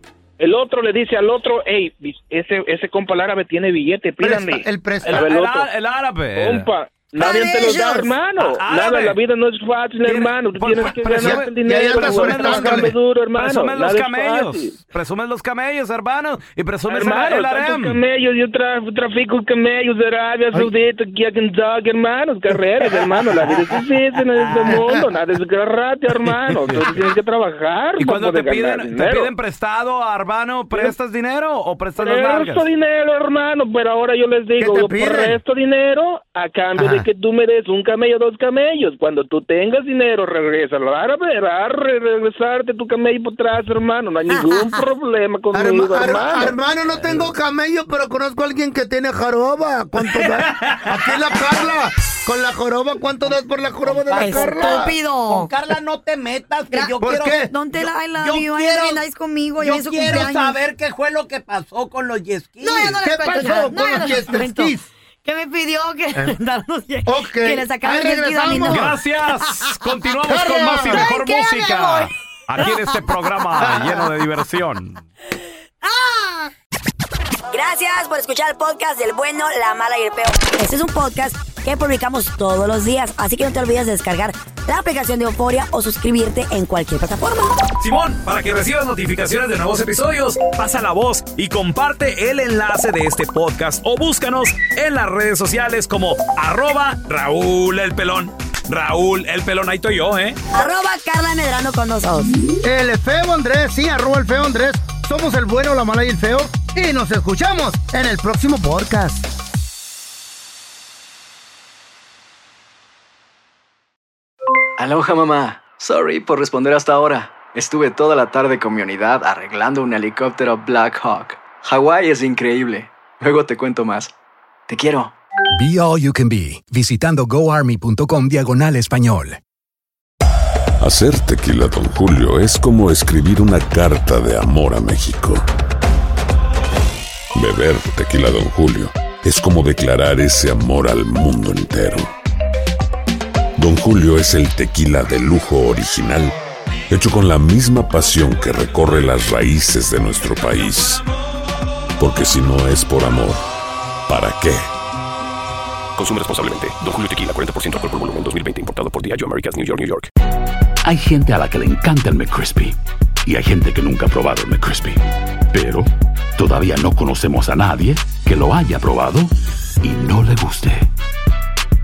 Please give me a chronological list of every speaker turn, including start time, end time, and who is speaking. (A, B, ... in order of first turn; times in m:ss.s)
0:00.4-0:05.7 A
0:04.2-0:05.3 B
0:05.1-0:06.7 C
0:06.4-0:14.8 A
0:07.2-0:08.1 B
0:08.4-0:09.2 C
0:10.0-0:18.0 C
0:11.0-0:12.9 B
0:16.9-0:29.3 A
0:24.7-0:25.0 B
0:26.6-0:26.9 C
0:28.0-0:32.6 C
0:32.0-0:46.5 A
0:34.6-0:35.4 B
0:36.8-0:37.0 B
0:45.5-0:54.9 B
0:53.8-0:57.4 D
0:54.1-0:55.5 E
0:57.0-0:57.5 B
0:57.5-1:00.6 E
0:58.2-0:59.0 D
0:59.6-1:03.2 D
1:02.6-1:09.0 E
1:03.0-1:04.8 B
1:07.0-1:09.0 B
1:08.6-1:15.0 C
1:09.5-1:09.8 E
1:10.3-1:11.0 B
1:10.8-1:13.0 E
1:13.5-1:14.0 E
1:13.6-1:14.0 B
1:15.8-1:16.5 E
1:17.5-1:27.6 E
1:27.8-1:40.4 C
1:40.5-1:42.4 E
1:42.6-1:49.2 B
1:54.8-2:04.1 F
2:04.7-2:05.1 F
2:05.5-2:09.4 G
2:10.8-2:15.4 H
2:17.3-2:22.1 H
2:23.6-2:26.3 H
2:26.9-2:31.0 H
2:32.0-2:33.4 H
2:34.1-2:34.6 H
2:36.0-2:40.1 I
2:40.8-2:50.9 J